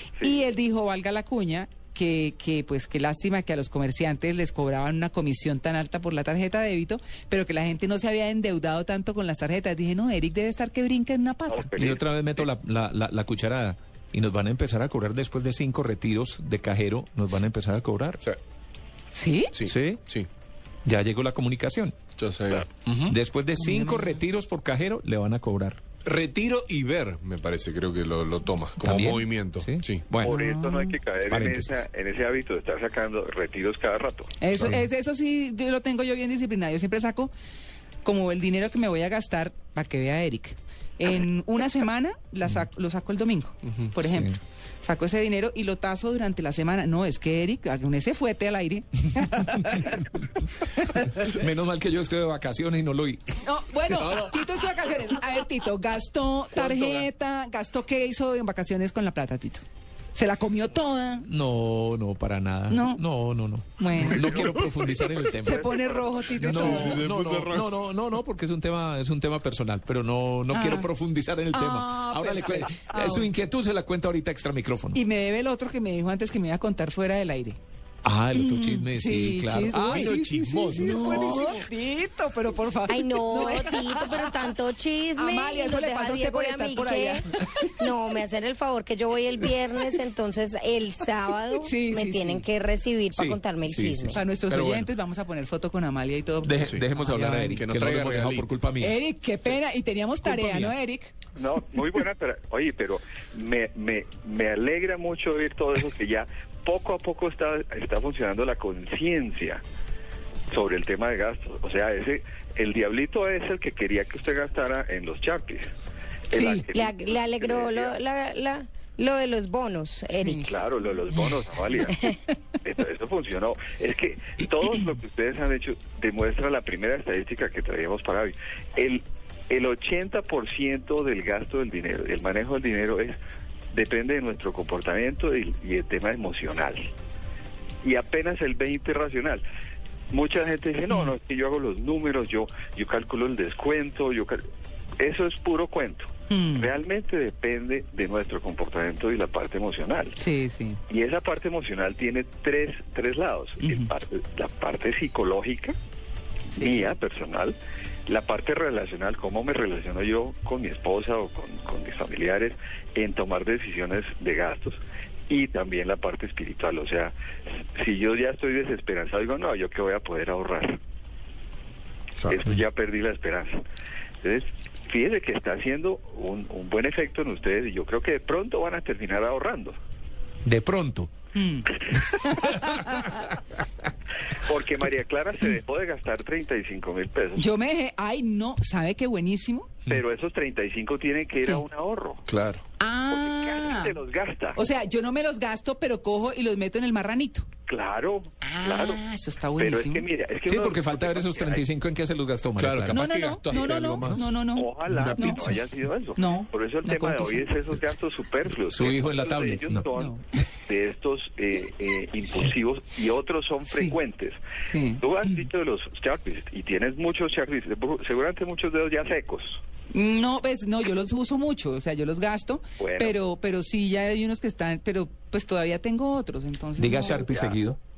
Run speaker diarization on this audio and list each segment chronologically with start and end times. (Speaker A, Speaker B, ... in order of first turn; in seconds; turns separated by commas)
Speaker A: 0.2-11.6, Speaker B: 11.5-12.4, Speaker C: 11.7-18.2, Speaker A: 19.1-19.5, Speaker D: 19.5-20.3, Speaker C: 19.6-20.0, Speaker C: 20.8-21.9, Speaker D: 22.2-23.2, Speaker C: 23.1-25.8, Speaker A: 23.6-24.2, Speaker D: 26.0-30.0, Speaker C: 28.8-30.3, Speaker B: 30.2-34.3, Speaker A: 30.2-31.0, Speaker C: 31.3-31.8, Speaker A: 34.4-37.3, Speaker A: 38.0-51.1, Speaker C: 44.1-44.4, Speaker C: 50.9-53.2, Speaker A: 53.4-59.6, Speaker D: 53.9-54.4, Speaker D: 56.5-57.0, Speaker A: 60.1-61.3, Speaker C: 61.3-65.7, Speaker A: 62.7-63.0, Speaker A: 63.8-64.3, Speaker D: 64.2-64.5, Speaker A: 65.4-67.0, Speaker B: 65.4-66.9, Speaker C: 66.4-75.0, Speaker D: 66.4-67.7, Speaker A: 70.5-70.9, Speaker A: 71.5-73.3, Speaker A: 74.9-77.6, Speaker C: 78.0-81.1, Speaker A: 78.3-80.1, Speaker D: 79.8-81.7, Speaker A: 80.7-84.5, Speaker E: 82.9-87.3, Speaker A: 85.2-87.7, Speaker E: 87.8-94.2, Speaker A: 91.6-92.5, Speaker C: 93.2-94.9, Speaker A: 94.1-97.6, Speaker C: 96.4-99.0, Speaker D: 96.6-96.9, Speaker D: 97.5-98.5, Speaker A: 98.8-101.1, Speaker C: 100.2-100.7, Speaker B: 101.3-109.6, Speaker B: 110.5-115.7, Speaker B: 116.3-118.0, Speaker E: 116.3-120.5, Speaker A: 120.2-120.5, Speaker B: 120.5-122.0, Speaker B: 122.6-133.2, Speaker B: 133.7-136.9, Speaker B: 137.8-139.4, Speaker B: 140.1-144.4, Speaker B: 145.0-150.2, Speaker A: 146.3-146.7, Speaker A: 150.2-150.8, Speaker B: 150.9-155.7, Speaker A: 153.6-153.9, Speaker A: 156.5-156.9, Speaker B: 156.6-157.6, Speaker B: 158.1-167.2, Speaker B: 167.8-170.8, Speaker B: 172.3-173.6, Speaker B: 174.2-179.8, Speaker C: 180.4-181.1, Speaker A: 181.3-183.2, Speaker C: 182.2-183.0, Speaker B: 184.5-187.5, Speaker A: 187.3-189.8, Speaker B: 189.9-192.2, Speaker D: 192.3-192.6, Speaker A: 192.8-193.9, Speaker B: 193.1-194.6, Speaker A: 194.5-197.5, Speaker B: 197.7-199.0, Speaker A: 198.4-200.0, Speaker B: 199.6-201.7, Speaker C: 200.4-203.0, Speaker D: 202.6-204.3, Speaker A: 202.9-205.6, Speaker B: 204.6-210.2, Speaker D: 204.9-205.6, Speaker A: 206.2-207.5, Speaker C: 208.7-209.9, Speaker A: 209.9-210.2, Speaker B: 210.7-214.4, Speaker A: 213.7-214.0, Speaker A: 214.7-215.0, Speaker B: 215.0-219.6, Speaker A: 219.9-227.3, Speaker B: 222.8-223.2, Speaker C: 226.8-227.8, Speaker B: 227.3-227.6